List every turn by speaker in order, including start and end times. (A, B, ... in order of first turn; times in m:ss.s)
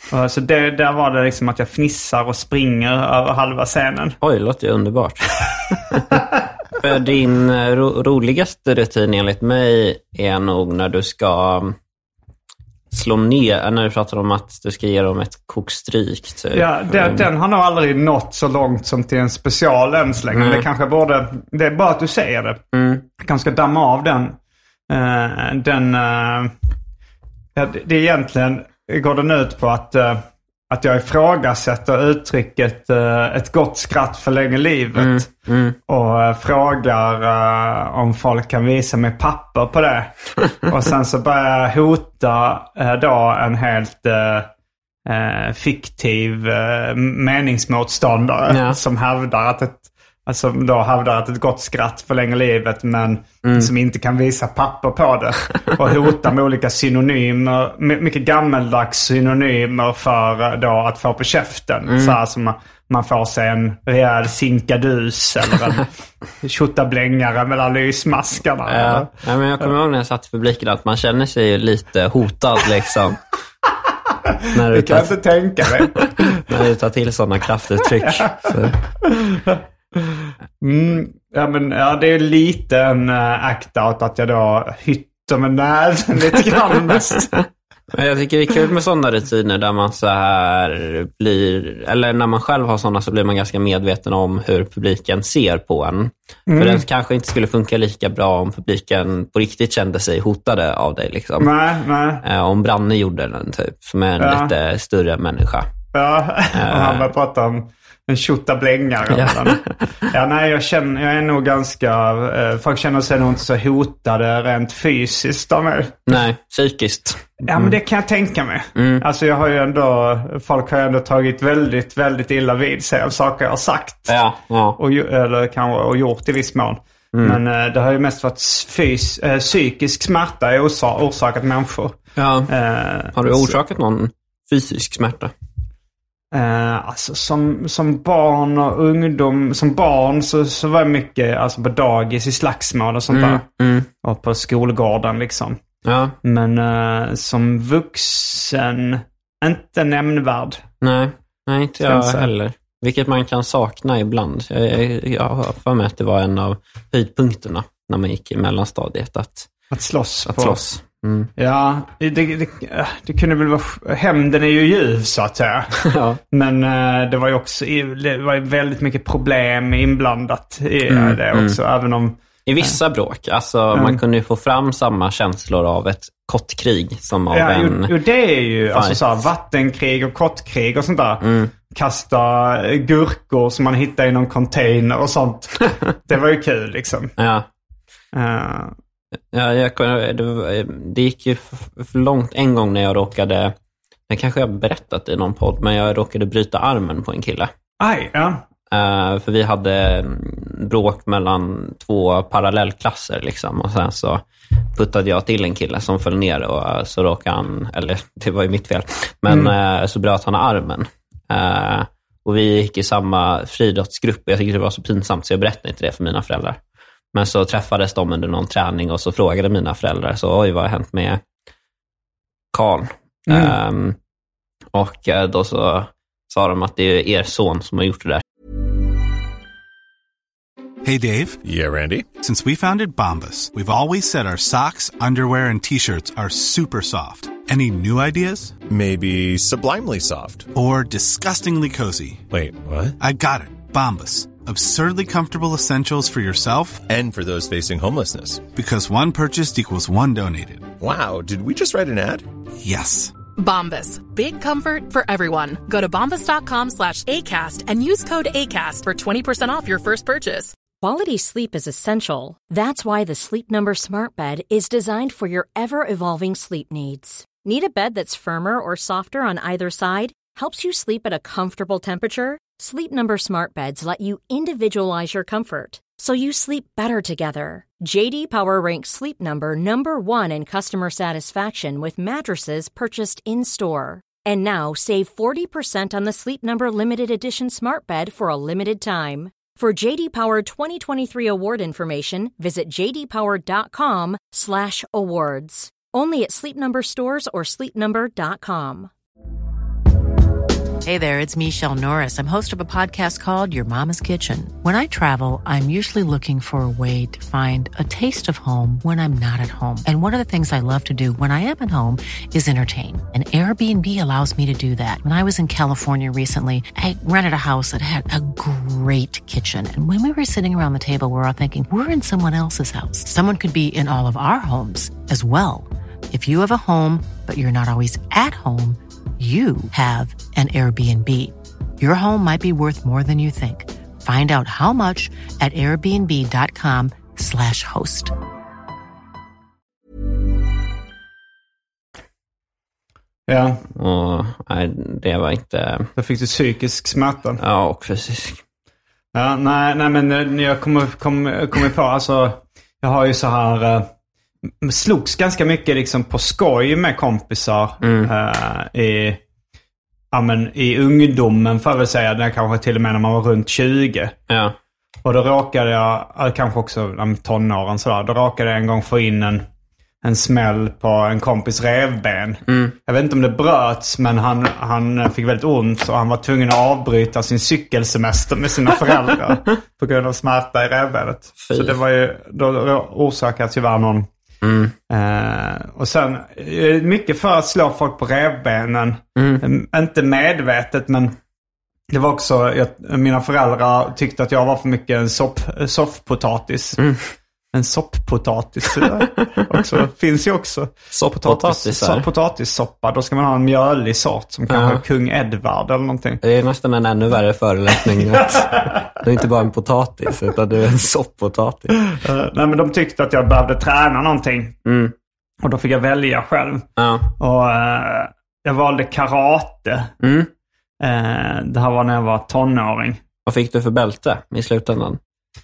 0:00.1-0:04.2 A
0:04.2-0:06.2 B
0:06.7-0:11.8 B
0:12.9-0:17.3 B
0:16.5-0:22.6 A
0:20.3-0:20.7 B
0:22.7-0:23.1 B
0:23.2-0:24.4 A
0:24.9-0:26.5 A
0:27.6-0:35.3 A
0:35.0-0:35.8 B
0:35.9-0:44.5 A
0:45.1-1:05.9 A
0:48.5-0:48.8 B
0:53.4-0:53.7 B
1:01.9-1:02.2 B
1:06.4-1:09.1 A
1:08.7-1:13.2 B
1:14.3-1:16.4 A
1:14.5-1:18.8 B
1:18.0-1:27.4 A
1:27.9-1:41.5 B
1:36.5-1:36.8 A
1:41.4-1:42.2 A
1:42.2-1:45.7 B
1:44.2-1:44.5 A
1:45.9-1:56.2 A
1:46.5-1:47.1 B
1:49.1-1:50.1 B
1:56.1-1:57.8 B
1:57.4-2:04.2 A
1:58.8-1:59.0 B
2:04.1-2:04.8 B
2:04.8-2:12.0 A
2:07.1-2:07.4 B
2:12.2-2:12.5 B
2:12.5-2:13.6 A
2:13.1-2:15.3 B
2:16.3-2:23.4 A
2:23.1-2:23.9 B
2:24.0-2:25.6 A
2:25.8-2:26.2 B
2:26.2-2:30.6 A
2:30.8-2:39.5 B
2:31.8-2:32.3 A
2:39.7-2:40.6 A
2:40.3-2:41.3 B
2:41.4-2:45.8 A
2:45.8-2:46.2 B
2:46.3-2:52.8 A
2:50.9-2:51.6 B
2:52.5-2:58.0 B
2:53.7-2:54.0 A
2:57.3-3:07.2 A
2:58.7-2:59.2 B
3:01.2-3:01.5 B
3:07.2-3:07.5 B
3:08.1-3:08.8 A
3:09.3-3:13.6 B
3:14.1-3:17.5 B
3:17.8-3:18.4 A
3:18.7-3:36.6 B
3:29.3-3:29.5 A
3:37.1-3:41.2 B
3:42.5-3:44.0 B
3:43.3-3:43.6 A
3:44.7-3:48.2 B
3:50.8-3:51.4 C
3:51.4-3:52.1 D
3:52.2-3:58.6 C
3:58.7-4:00.5 D
4:00.5-4:02.2 C
4:02.3-4:03.0 D
4:03.0-4:06.8 C
4:06.9-4:08.4 D
4:08.5-4:10.7 C
4:10.8-4:12.3 D
4:12.6-4:13.1 C
4:13.4-4:20.6 E
4:20.8-4:58.9 F
5:00.8-5:38.1 G
5:43.3-5:43.6 A
5:43.7-5:45.9 B
5:46.0-5:47.4 A
5:47.4-5:48.4 B
5:49.1-5:53.9 A
5:54.6-5:59.2 A
5:57.8-5:58.1 B
6:00.1-6:04.2 A
6:04.3-6:04.6 B
6:05.0-6:09.4 A
6:10.0-6:24.1 A
6:12.5-6:12.8 B
6:21.4-6:21.8 B
6:24.4-6:24.8 B
6:24.9-6:31.2 A
6:29.2-6:29.4 B
6:31.9-6:36.8 A
6:37.5-6:46.2 A
6:40.9-6:42.1 B
6:44.5-6:44.8 B
6:46.2-6:51.8 B
6:48.0-6:48.9 A
6:51.9-6:54.6 A
6:54.6-6:54.9 B
6:55.4-6:56.7 A
6:56.8-6:57.1 B
6:57.2-6:59.9 A
7:00.0-7:00.3 B
7:00.8-7:03.0 A
7:03.3-7:05.0 B